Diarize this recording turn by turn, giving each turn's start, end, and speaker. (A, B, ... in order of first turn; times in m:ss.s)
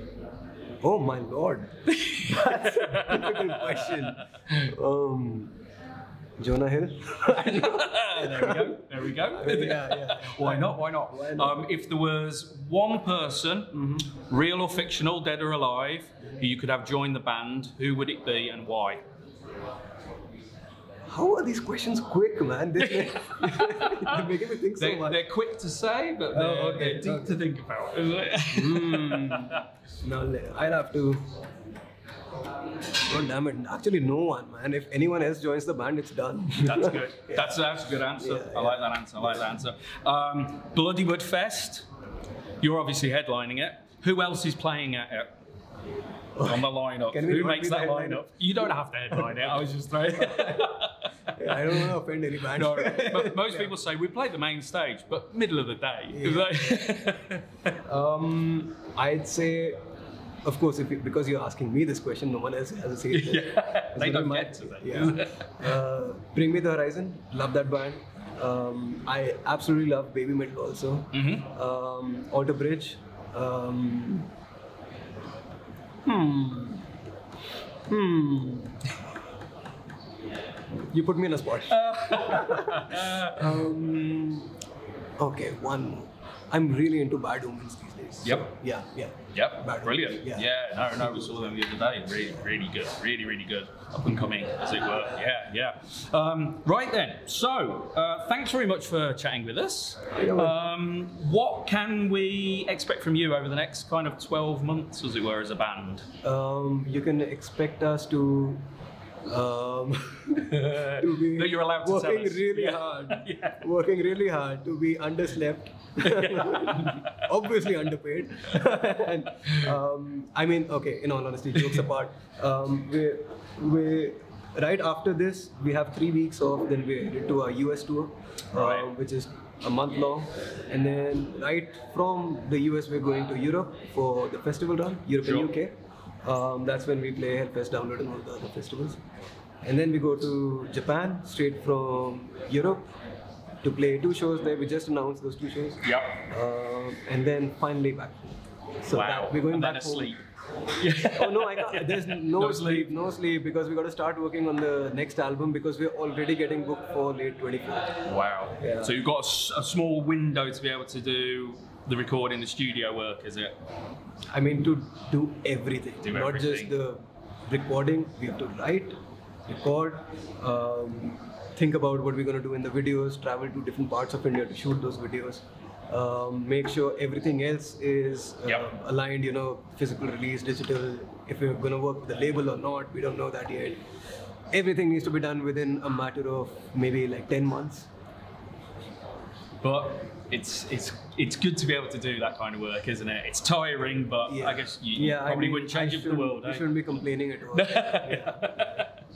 0:00.8-0:05.6 A
0:01.9-0:04.0 B
0:06.4-0:11.6 A
0:07.3-0:19.0 B
0:13.7-0:14.0 A
0:21.1-0:25.2 A
0:23.0-0:29.6 B
0:26.3-0:27.4 A
0:28.5-0:31.2 A
0:33.0-0:39.5 A
0:36.6-0:41.8 B
0:42.6-0:45.3 B
0:46.4-0:48.3 A
0:46.4-0:51.9 B
0:50.1-0:50.7 A
0:51.4-0:53.7 A
0:52.5-0:57.5 B
0:56.1-0:56.8 A
0:57.8-0:59.8 A
1:00.4-1:14.3 A
1:03.1-1:05.7 B
1:11.1-1:11.4 B
1:16.0-1:16.9 A
1:17.9-1:18.8 A
1:20.9-1:24.5 A
1:21.7-1:23.6 B
1:25.2-1:30.4 A
1:28.2-1:28.5 B
1:29.3-1:46.0 B
1:40.2-1:40.6 A
1:46.2-1:48.6 A
1:49.2-2:19.0 A
1:50.5-1:53.6 B
1:56.1-1:57.2 B
2:08.5-2:08.9 B
2:15.2-2:15.5 B
2:19.6-2:22.8 A
2:23.6-2:30.2 A
2:25.8-2:26.2 B
2:28.9-2:30.2 B
2:30.8-2:32.9 B
2:31.1-2:37.9 A
2:38.0-2:43.5 B
2:38.6-2:38.9 A
2:44.3-2:48.9 A
2:46.0-2:46.7 B
2:49.5-3:03.8 A
3:04.5-3:07.9 A
3:09.6-3:18.9 B
3:14.3-3:18.6 A